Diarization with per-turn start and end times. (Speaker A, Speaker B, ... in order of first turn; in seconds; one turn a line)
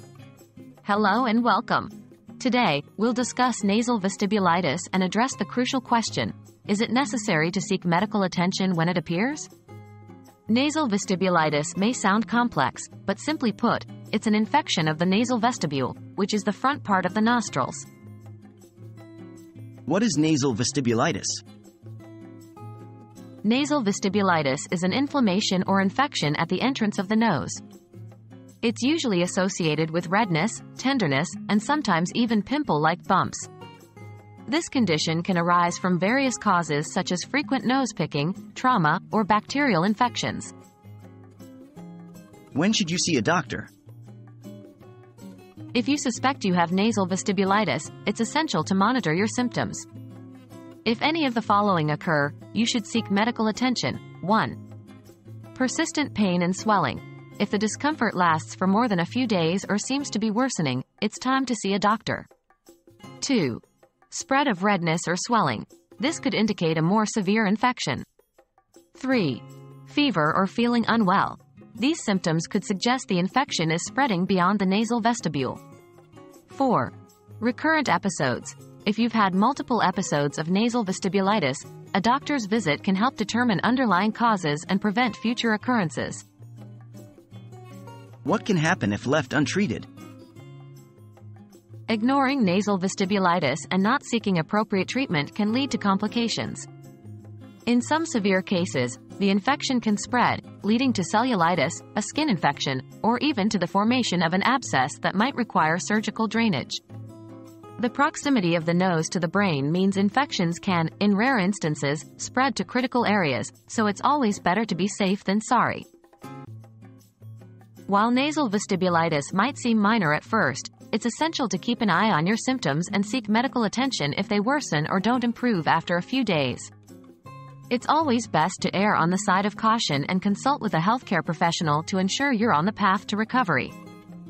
Speaker A: 0.8-9.5
Speaker A: 10.5-17.9
Speaker B: 19.9-21.4
Speaker A: 23.4-27.6
Speaker A: 28.6-33.5
Speaker A: 34.5-40.5
Speaker B: 42.5-43.7
Speaker A: 45.7-49.9
Speaker A: 50.9-54.6
Speaker A: 55.5-62.3
Speaker A: 63.2-68.0
Speaker A: 69.0-75.6
Speaker A: 76.5-86.2
Speaker B: 88.2-89.9
Speaker A: 91.9-96.7
Speaker A: 97.7-106.8
Speaker A: 107.8-115.9
Speaker A: 117.9-126.7
Speaker A: 127.7-133.8